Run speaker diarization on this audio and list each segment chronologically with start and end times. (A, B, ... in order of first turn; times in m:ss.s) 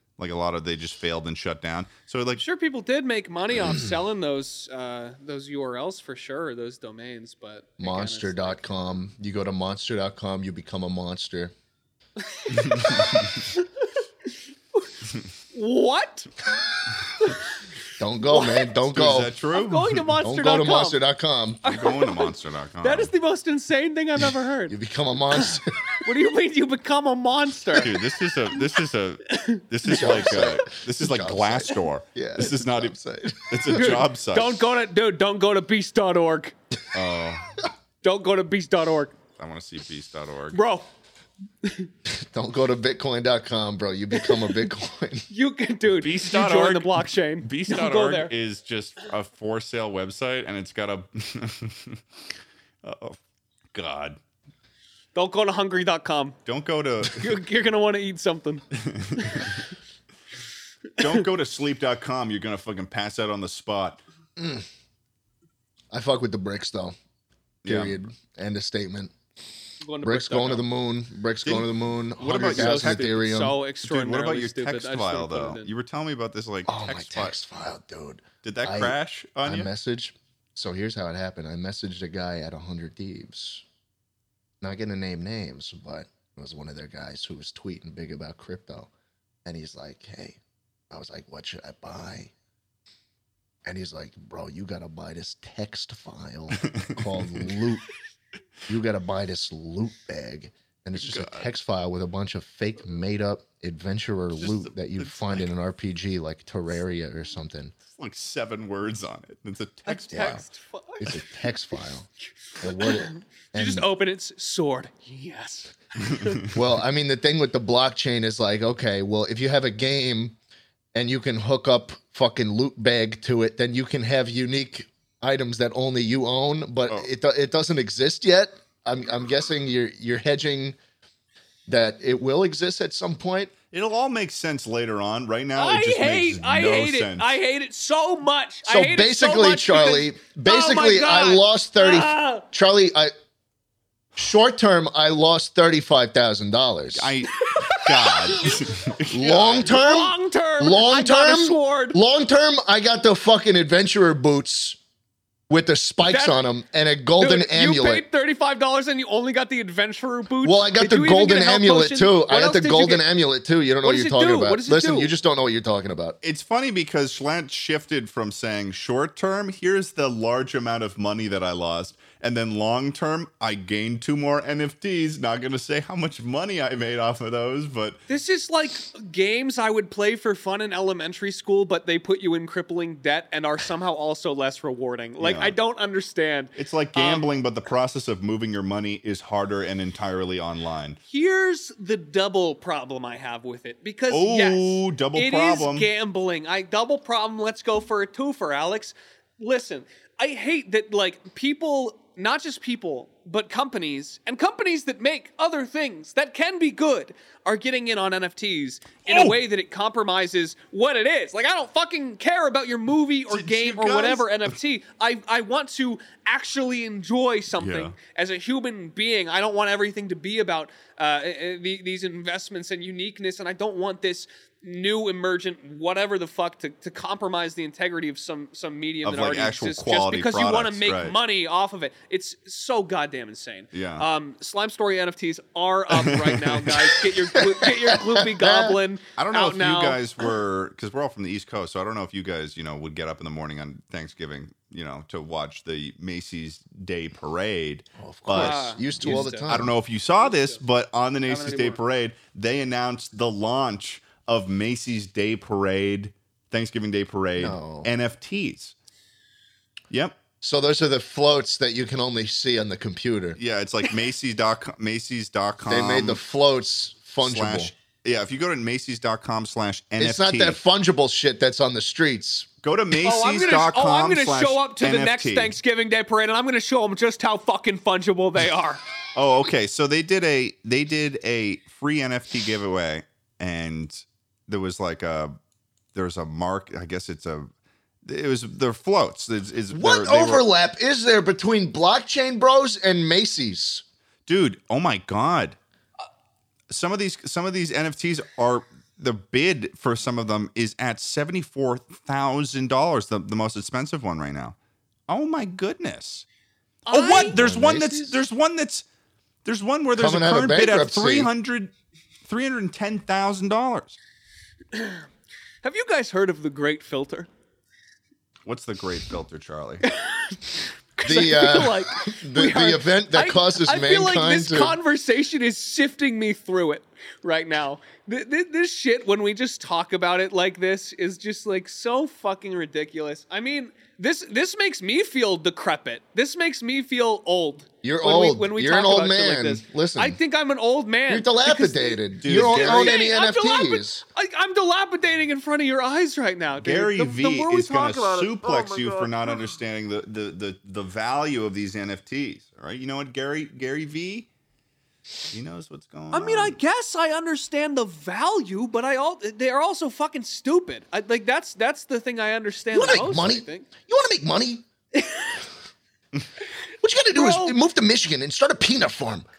0:00.2-0:02.4 A
0:02.4-0:08.6 B
0:07.8-0:11.5 C
0:12.2-0:13.9 B
0:12.5-0:13.4 A
0:15.5-0:16.3 B
0:18.0-0:19.3 C
0:18.3-0:18.7 B
0:18.9-0:20.1 A
0:19.5-0:21.0 B
0:20.2-0:21.6 C
0:21.6-0:24.7 B
0:21.6-0:23.1 A
0:24.7-0:25.7 C
0:25.3-0:28.0 B
0:27.8-0:32.9 A
0:29.3-0:30.5 B
0:29.9-0:33.9 C
0:33.5-0:34.6 A
0:33.7-0:36.5 B
0:36.9-0:37.5 A
0:38.0-0:39.2 B
0:39.3-0:40.6 A
0:40.5-0:40.9 B
0:42.1-0:45.3 C
0:45.3-0:48.3 B
0:46.0-0:52.0 A
0:52.8-0:53.2 A
0:53.7-0:54.2 A
0:55.1-0:56.4 B
0:56.4-0:57.4 A
0:57.0-0:58.6 B
0:58.7-0:59.6 A
0:59.2-0:59.6 B
1:01.0-1:04.0 A
1:04.4-1:04.6 C
1:05.9-1:07.0 C
1:07.6-1:08.0 A
1:07.6-1:09.1 C
1:09.8-1:10.6 B
1:10.0-1:13.6 C
1:11.4-1:13.1 A
1:12.3-1:15.7 B
1:13.8-1:17.4 A
1:16.7-1:23.6 C
1:18.4-1:19.7 A
1:24.6-1:28.9 C
1:29.4-1:30.4 C
1:30.9-1:32.3 C
1:33.6-1:37.8 C
1:36.6-1:37.5 A
1:38.7-1:47.7 C
1:41.0-1:41.5 A
1:44.3-1:45.5 A
1:47.9-1:50.4 A
1:49.9-1:51.1 B
1:50.1-1:50.4 C
1:51.0-1:52.1 C
1:52.6-1:53.9 C
1:52.8-1:56.4 B
1:56.0-1:56.5 A
1:56.5-2:00.4 C
2:00.9-2:10.8 C
2:11.7-2:13.5 C
2:13.7-2:17.3 A
2:15.5-2:22.4 B
2:18.6-2:23.1 C
2:24.2-2:27.1 C
2:26.9-2:29.7 A
2:27.3-2:32.0 B
2:29.1-2:34.8 C
2:35.5-2:38.0 C
2:36.0-2:36.4 B
2:37.2-2:43.0 B
2:40.4-2:46.2 C
2:43.8-2:45.1 B
2:46.2-2:58.0 A
2:58.1-3:07.3 B
3:05.2-3:05.6 A
3:06.6-3:11.0 A
3:11.1-4:00.0 B
3:14.1-3:15.9 A
3:29.0-3:29.4 A
3:33.3-3:34.6 A
3:37.6-3:38.0 A
3:49.0-3:51.2 A
3:53.7-3:54.0 A
3:55.9-3:57.0 A
3:57.3-3:58.8 C
3:59.2-4:18.7 A
4:08.0-4:09.7 C
4:08.3-4:09.6 B
4:10.2-4:10.6 B
4:11.3-4:11.8 B
4:17.4-4:17.9 C
4:19.9-4:20.2 A
4:20.4-4:23.4 C
4:23.4-4:26.2 A
4:25.7-4:27.7 C
4:27.2-4:30.6 A
4:30.0-4:32.5 C
4:32.6-4:35.5 A
4:33.0-4:38.8 B
4:39.1-4:45.3 A
4:45.9-4:47.5 A
4:48.0-4:50.4 A
4:49.7-4:53.8 C
4:54.3-4:55.6 A
4:56.7-5:04.6 A
5:05.1-5:06.2 A
5:06.9-5:07.5 B
5:06.9-5:08.8 A
5:07.2-5:08.1 C
5:09.4-5:11.7 A
5:10.0-5:11.3 C
5:12.2-5:14.0 A
5:14.7-5:15.0 B
5:15.6-5:17.3 B
5:18.4-5:19.9 A
5:19.8-5:49.5 B
5:21.0-5:24.8 C
5:37.8-5:40.2 C
5:41.1-5:44.0 C
5:42.2-5:43.0 A
5:46.6-5:54.3 A
5:55.3-5:56.6 A
5:56.1-6:03.7 B
6:02.7-6:04.6 C
6:04.9-6:05.4 B
6:06.8-6:09.3 C
6:07.1-6:07.6 B